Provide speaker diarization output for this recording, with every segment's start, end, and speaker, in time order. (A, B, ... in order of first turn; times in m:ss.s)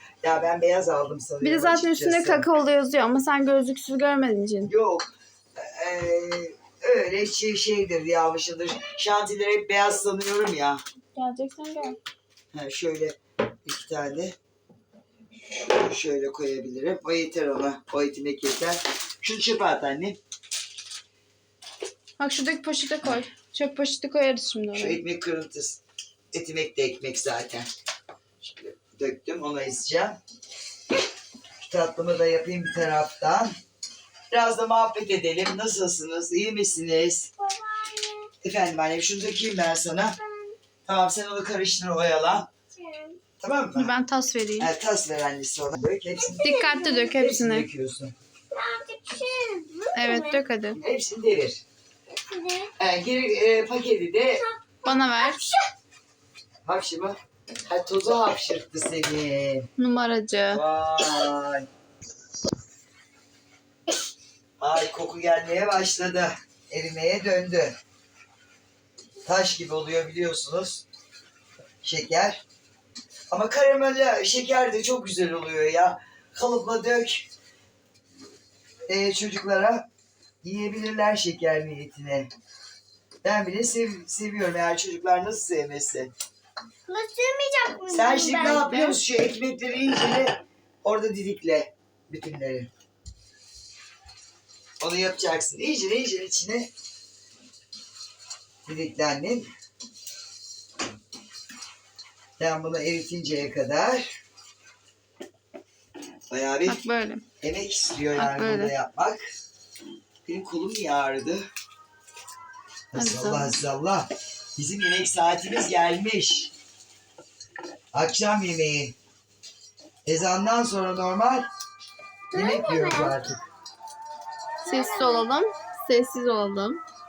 0:00.2-0:02.5 A
0:01.4-0:04.7 B
0:04.6-0:10.8 A
0:11.1-0:12.0 B
0:12.5-0:14.4 A
0:15.4-0:20.2 A
0:22.2-0:25.0 B
0:24.7-0:25.8 A
0:26.3-0:27.7 A
0:28.4-0:30.2 A
0:31.6-0:33.5 A
0:34.3-0:37.3 A
0:37.4-0:38.3 C
0:38.4-0:40.2 A
0:40.2-0:40.6 C
0:40.8-0:42.5 A
0:42.7-0:43.2 C
0:43.4-0:43.9 A
0:43.7-0:44.7 B
0:44.6-0:46.5 A
0:46.2-0:47.2 C
0:46.4-0:47.6 B
0:47.2-0:48.1 A
0:48.5-0:50.4 C
0:49.9-0:50.8 B
0:50.8-0:51.6 A
0:52.1-0:52.7 C
0:52.8-0:54.4 A
0:54.4-0:55.7 C
0:54.8-0:55.4 B
0:56.6-0:59.7 A
0:59.8-1:00.6 B
1:00.5-1:01.7 A
1:04.6-1:07.8 A
1:09.2-1:10.8 A
1:11.8-1:12.4 A
1:13.3-1:17.3 A
1:18.9-1:19.8 A
1:20.4-1:22.3 A
1:23.2-1:26.1 A
1:26.9-1:28.7 C
1:27.9-1:32.7 A
1:28.3-1:29.0 B
1:34.8-1:36.7 A
1:38.6-1:39.5 A
1:42.4-1:44.1 A
1:46.3-1:46.8 A
1:46.6-1:47.2 B
1:47.4-1:49.2 A
1:48.2-1:48.7 B
1:50.2-1:51.5 A
1:52.9-1:56.5 A
1:52.9-1:53.6 B
1:57.9-1:59.0 A
2:00.0-2:01.5 A
2:02.3-2:03.1 C
2:02.3-2:03.4 A
2:04.6-2:05.3 C
2:04.6-2:06.8 B